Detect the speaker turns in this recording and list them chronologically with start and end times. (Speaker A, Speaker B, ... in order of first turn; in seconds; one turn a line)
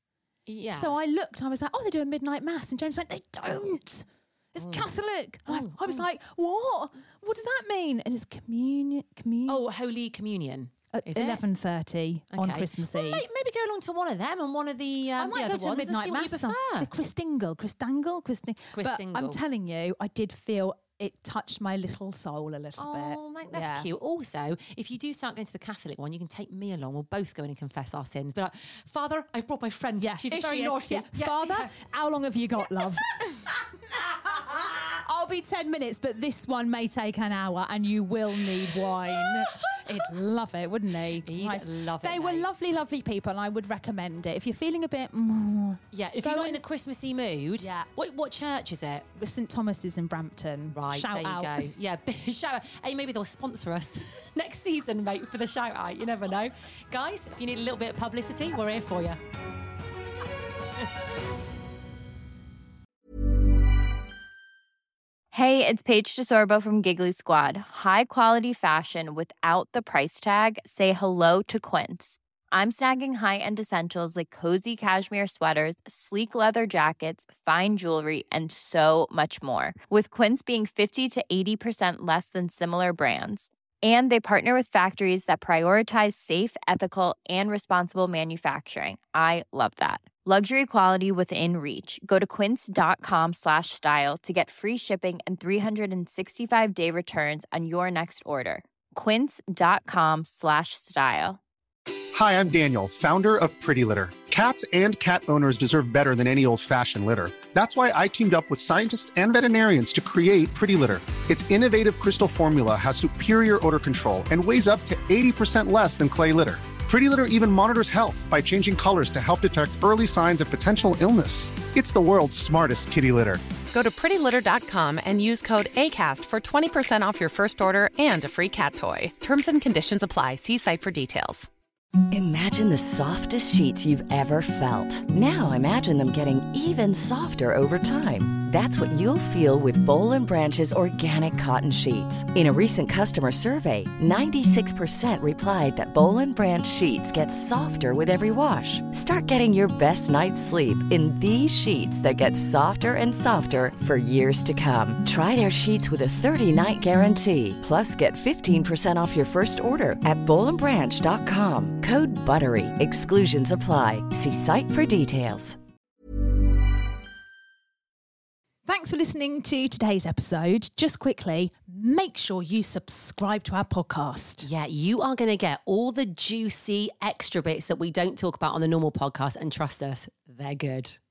Speaker A: 0.5-0.9
Speaker B: 0.7-9.6
Speaker A: 4.6-4.9
Speaker A: 5.5-6.0
Speaker A: 9.5-11.4
Speaker B: 10.9-13.3
Speaker A: 12.3-16.9
Speaker B: 15.2-23.9
Speaker A: 18.7-19.4
Speaker A: 22.8-31.7
Speaker B: 30.0-33.6
Speaker B: 34.3-46.6
Speaker A: 41.2-42.5
Speaker A: 45.9-49.0
Speaker B: 47.6-47.9
Speaker B: 49.1-51.7
Speaker A: 50.7-59.2
Speaker C: 65.3-101.4
Speaker D: 102.1-123.4
Speaker E: 123.7-131.5
Speaker F: 132.1-165.6
Speaker B: 168.7-174.5
Speaker A: 174.4-181.0